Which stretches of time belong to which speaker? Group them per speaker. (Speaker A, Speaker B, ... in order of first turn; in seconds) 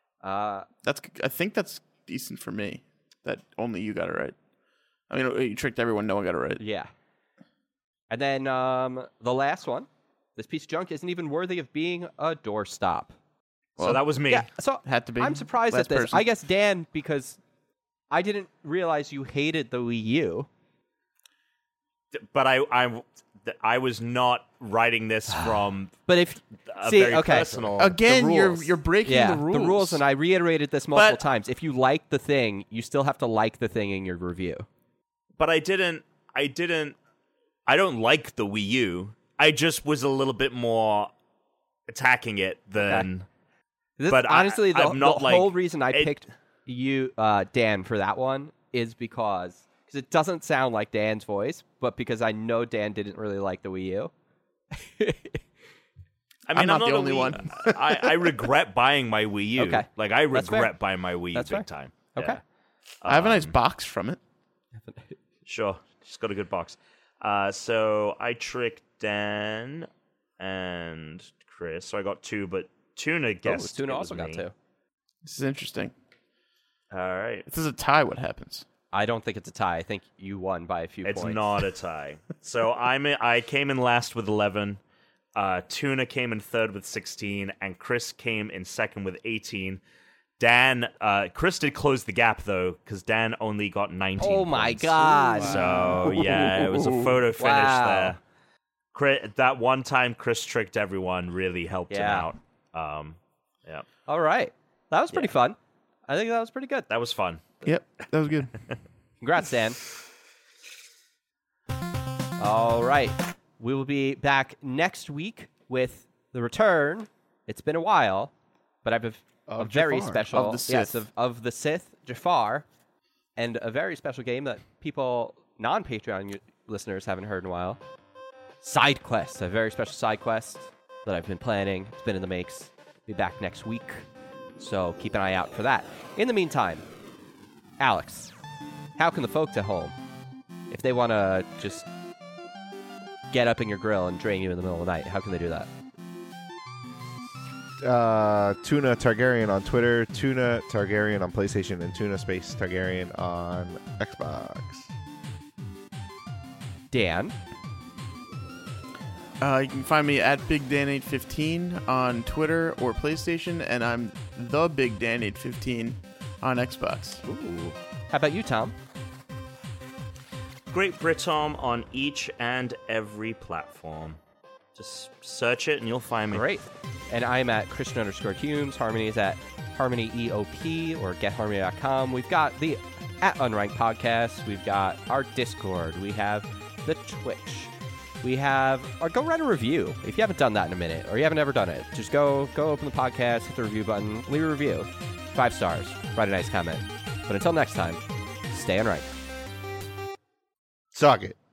Speaker A: 0.2-0.7, 6.6-6.9, 8.1-13.1, 14.3-17.4, 18.1-20.5, 25.3-34.6, 42.8-43.0, 44.0-54.1, 54.7-55.4, 59.6-60.7, 61.3-62.4, 64.7-65.2, 73.4-74.5, 78.9-81.4, 94.2-96.0, 97.4-98.2, 101.9-102.3, 104.0-106.9, 109.2-109.8, 112.4-118.3, 118.8-122.6, 123.4-127.8, 128.6-134.1, 134.6-136.8, 137.8-138.3, 139.0-139.9, 140.7-141.9, 143.3-145.7, 156.9-157.3, 167.2-168.7, 176.3-198.0, 198.5-199.1
Speaker B: 0.8-4.3, 5.1-6.6, 14.8-16.2, 27.8-30.0, 56.5-58.4, 63.0-64.2, 75.2-75.9, 77.5-78.6, 95.4-97.2, 107.6-108.6, 119.9-121.0, 159.4-167.2
Speaker C: 13.8-14.5, 22.1-25.9, 26.7-27.9, 30.9-31.2, 35.4-37.0, 37.6-41.1, 41.9-43.2, 44.1-46.1, 56.5-62.4, 63.0-63.5, 65.5-69.9, 70.4-74.4, 76.9-77.5, 81.0-84.8, 85.3-89.8, 90.4-98.2, 98.9-103.8, 106.9-107.5, 170.7-174.2, 174.7-176.4
Speaker D: 27.5-27.9, 119.5-120.1, 147.8-154.9, 200.9-201.3